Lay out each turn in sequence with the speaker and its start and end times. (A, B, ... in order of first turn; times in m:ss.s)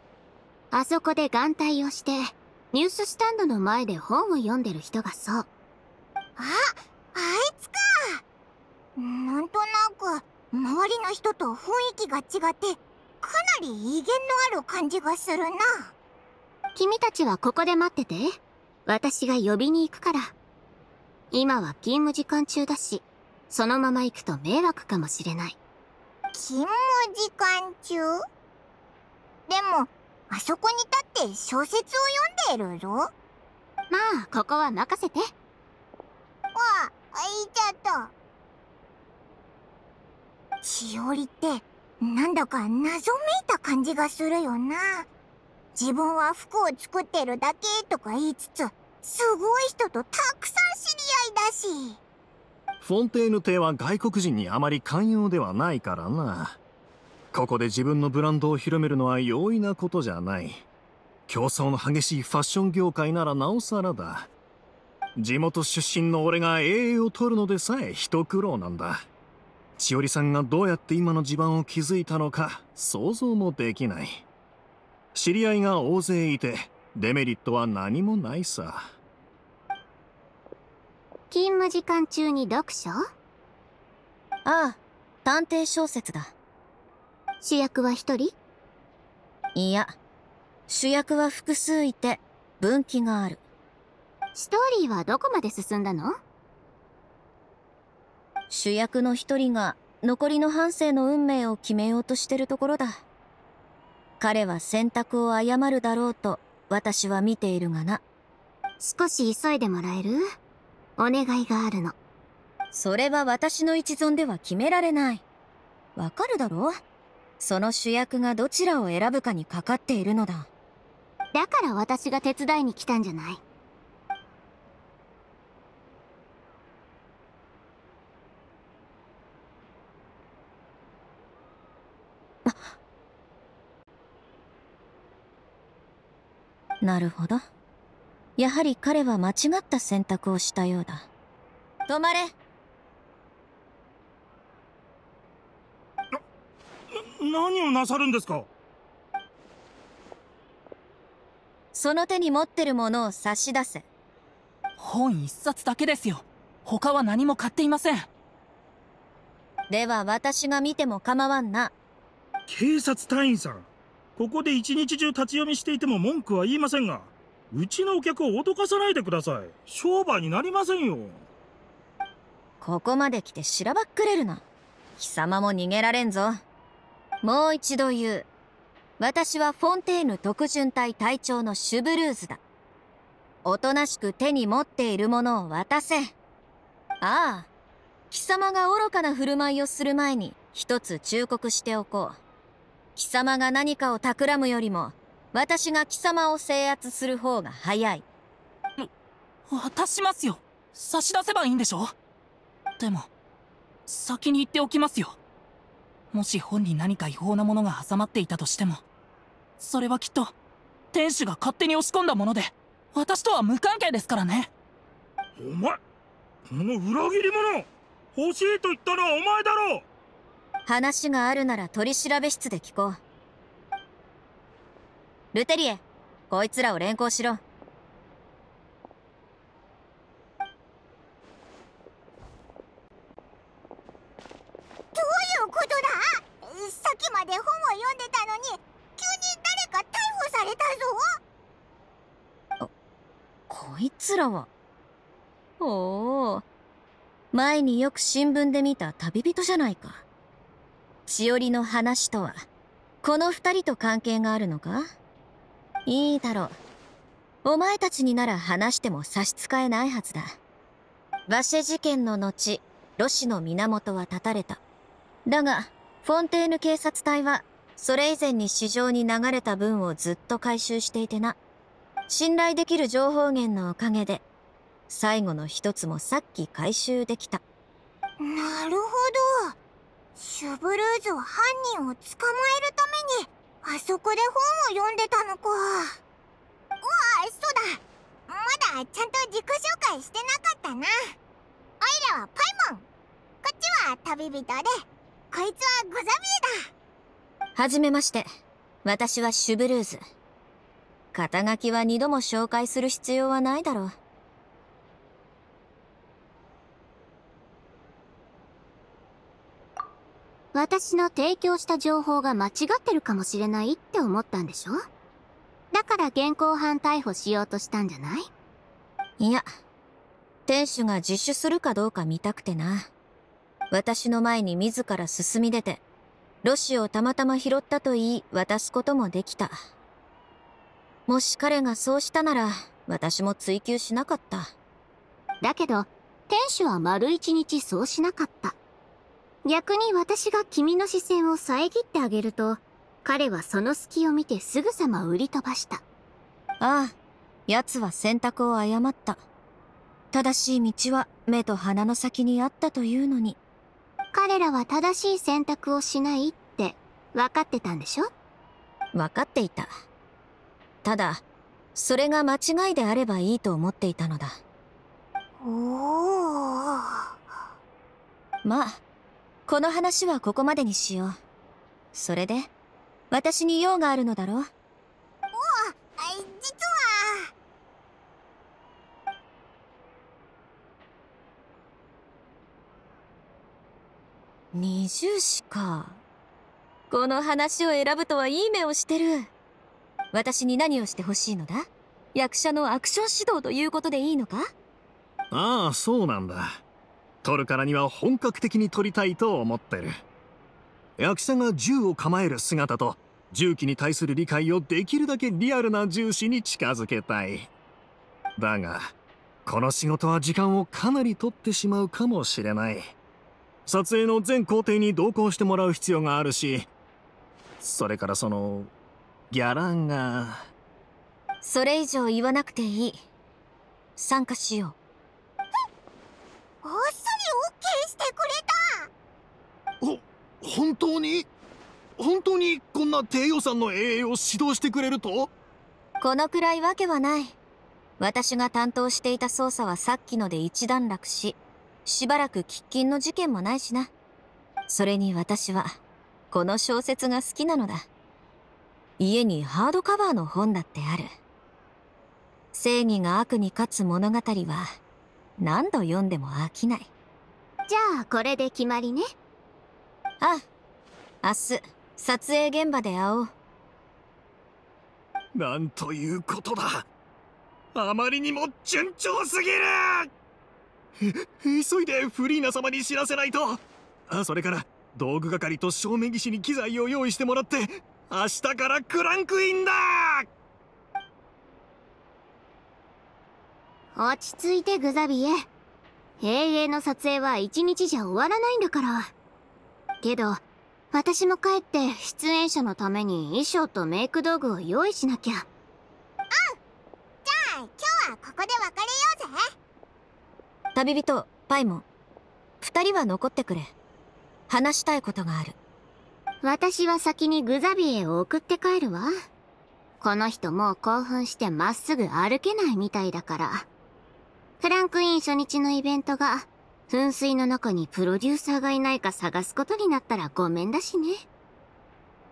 0:00.7-0:05.5 A
0:06.4-0:08.2 B
0:09.0-0:15.9 B
0:16.8-0:20.3 A
0:21.3-0:25.6 A
0:26.3-0:28.1 B
0:29.5-0:33.1 B
0:33.9-0:35.3 A
0:36.6-0:38.1 B
0:40.6-0:45.1 B
0:45.8-0:52.0 B
0:52.8-0:56.6 C
0:57.3-1:00.6 C
1:01.3-1:04.3 C
1:05.2-1:09.0 C
1:09.8-1:14.2 C
1:15.2-1:18.9 C
1:21.3-1:23.0 A
1:24.4-1:26.3 D
1:27.4-1:28.4 A
1:29.6-1:30.0 D
1:30.7-1:33.4 D
1:34.3-1:36.2 A
1:38.5-1:43.0 D
1:44.2-1:48.0 D
1:48.8-1:50.3 A
1:51.0-1:52.0 A
1:52.7-1:55.2 D
1:56.0-1:56.8 D
1:57.4-2:00.5 D
2:01.3-2:03.4 A
2:16.8-2:17.4 D
2:18.4-2:21.1 D
2:21.9-2:22.3 D
2:27.0-2:28.5 E
2:31.7-2:33.8 D
2:34.8-2:38.1 F
2:39.7-2:41.7 D
2:42.5-2:51.2 E
2:52.6-2:54.4 D
2:55.0-2:56.4 D
2:57.2-2:58.3 D
2:59.0-3:02.4 D
3:03.4-3:06.1 D
3:07.0-3:07.5 D
3:08.1-3:12.2 D
3:13.0-3:18.0 D
3:19.5-3:22.0 F
3:22.8-3:23.1 F
3:23.9-3:25.2 F
3:26.1-3:28.8 F
3:29.6-3:30.4 F
3:30.9-3:34.5 F
3:35.4-3:35.8 E
3:36.5-3:39.8 E
3:40.7-3:43.0 D
3:45.3-3:47.4 D
3:55.0-4:01.0 B
4:03.5-4:04.5 D
4:05.6-4:06.4 D
4:07.3-4:10.0 D
4:11.1-4:12.4 D
4:13.0-4:14.9 D
4:15.9-4:16.6 D
4:17.4-4:20.4 D
4:21.3-4:24.6 D
4:25.3-4:31.4 D
4:32.1-4:34.2 D
4:34.9-4:37.4 D
4:38.2-4:39.6 B
4:40.2-4:46.0 B
4:46.8-4:50.9 B
4:51.8-4:52.8 B
4:53.4-4:56.5 B
4:57.6-4:58.3 D
4:58.8-5:00.0 D
5:01.1-5:04.0 D
5:10.5-5:14.9 A
5:15.7-5:18.3 A
5:19.2-5:19.4 D
5:20.5-5:22.9 D
5:23.7-5:25.8 D
5:26.4-5:29.6 D
5:31.1-5:34.5 D
5:35.4-5:38.6 A
5:39.4-5:45.8 A
5:46.6-5:46.9 D
5:47.5-5:49.2 D
5:50.1-5:53.4 D
5:54.1-5:58.1 A
5:58.9-5:59.7 D
6:00.8-6:01.2 D
6:01.8-6:04.4 D
6:05.4-6:07.1 B
6:08.4-6:08.8 D
6:09.5-6:11.2 D
6:11.9-6:12.5 D
6:13.1-6:14.5 D
6:15.3-6:17.3 B
6:24.5-6:26.0 D
6:26.9-6:29.3 D
6:30.1-6:34.5 D
6:35.3-6:36.6 C
6:37.2-6:39.9 C
6:41.0-6:47.5 C
6:48.4-6:48.9 C
6:49.5-6:53.0 C
6:53.7-6:56.7 C
6:57.6-6:58.7 C
6:59.3-7:00.4 C
7:01.4-7:03.0 D
7:04.0-7:04.8 D
7:06.6-7:08.9 B
7:09.8-7:11.3 C
7:12.0-7:15.3 C
7:16.0-7:17.4 D
7:18.0-7:23.9 D
7:24.7-7:25.7 D
7:26.3-7:27.9 D
7:29.0-7:31.1 D
7:32.5-7:34.7 D
7:35.4-7:36.9 D
7:37.7-7:39.1 A
7:41.2-7:43.3 D
7:45.3-7:46.9 C
7:47.8-7:50.1 C
7:51.0-8:00.3 C
8:03.9-8:05.5 A
8:06.2-8:09.1 A
8:10.0-8:15.5 A
8:17.2-8:19.4 B
8:20.8-8:21.8 D
8:22.6-8:23.7 D
8:24.5-8:25.6 D
8:26.4-8:29.1 A
8:30.0-8:33.7 A
8:34.6-8:41.3 A